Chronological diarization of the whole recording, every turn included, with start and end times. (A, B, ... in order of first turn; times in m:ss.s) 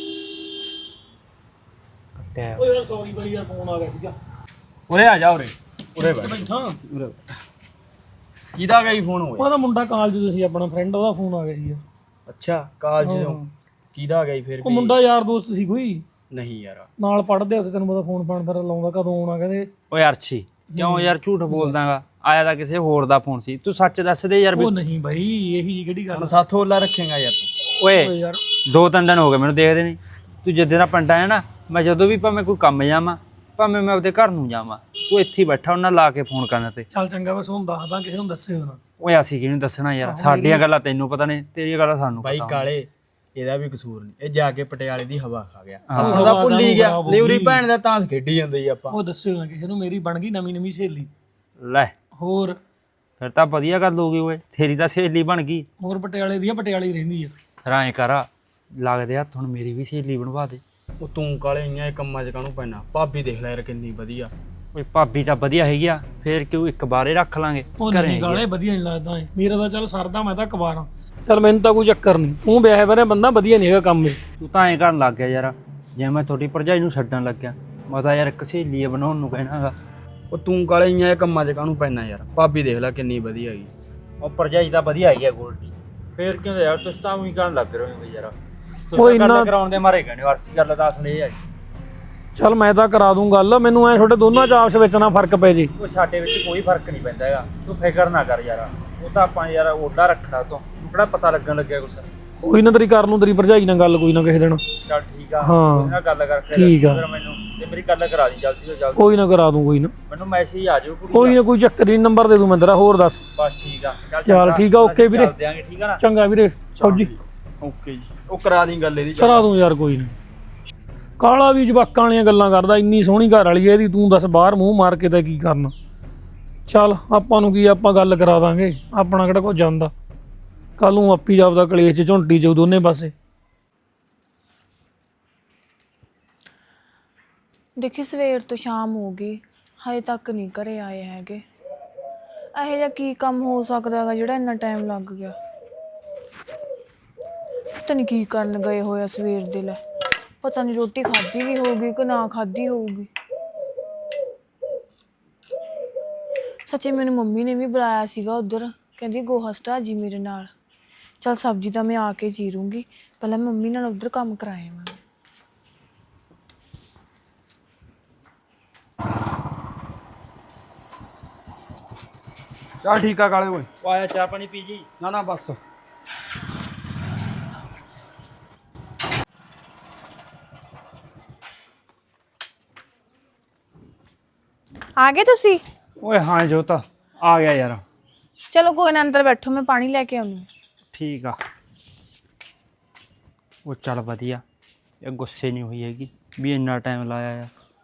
0:02.2-0:02.6 A
0:02.6-0:04.2 B
0:04.9-0:07.4 C
0:06.0-0:06.8 B
0:08.6-0:09.5 C
0:09.4-0:11.8 B
0:12.3-0:13.4 C
0:13.0-0:13.5 B
0:13.9-0:15.0 C
0:14.6-0:16.0 B
0:16.3-0:16.9 C
0:17.0-0:19.7 B
0:19.9-0:24.7 A
0:20.7-0:21.7 B
0:24.6-0:26.4 B
0:26.1-0:27.5 C
0:27.8-0:36.9 A
0:27.8-0:28.4 B
0:36.9-0:38.8 B
0:39.0-0:42.7 A
0:40.0-0:40.6 B
0:42.2-0:49.0 C
0:45.9-0:46.8 A
0:46.0-0:47.6 B
0:48.9-0:51.1 B
0:51.6-0:51.9 A
0:52.2-0:52.6 B
0:53.2-0:55.7 A
0:55.8-0:57.3 B
0:57.6-1:00.6 A
1:01.0-1:04.3 C
1:04.8-1:08.5 A
1:07.8-1:14.2 B
1:14.4-1:19.8 A
1:20.3-1:23.7 C
1:24.2-1:28.3 A
1:28.9-1:31.4 A
1:29.0-1:29.5 B
1:32.4-1:35.7 B
1:35.8-1:42.1 A
1:42.4-1:44.6 B
1:44.9-1:49.1 A
1:45.4-1:46.0 B
1:46.5-1:47.0 B
1:49.0-1:49.9 B
1:50.1-1:51.4 A
1:51.1-1:53.2 B
1:53.4-1:56.0 A
1:54.3-1:55.3 B
1:56.0-1:57.1 B
1:56.8-1:59.5 C
1:59.2-2:00.2 B
2:01.2-2:05.7 B
2:06.7-2:09.9 B
2:10.8-2:13.1 B
2:17.8-2:21.4 D
2:22.6-2:25.4 D
2:27.8-2:29.8 D
2:30.4-2:33.1 D
2:36.7-2:40.5 D
2:41.2-2:45.0 D
2:52.8-2:53.7 C
2:53.8-2:54.9 A
2:55.0-2:55.6 C
3:05.0-3:05.6 D
3:06.0-3:07.8 A
3:08.5-3:10.5 D
3:10.9-3:11.4 A
3:13.6-3:14.4 A
3:15.0-3:17.5 A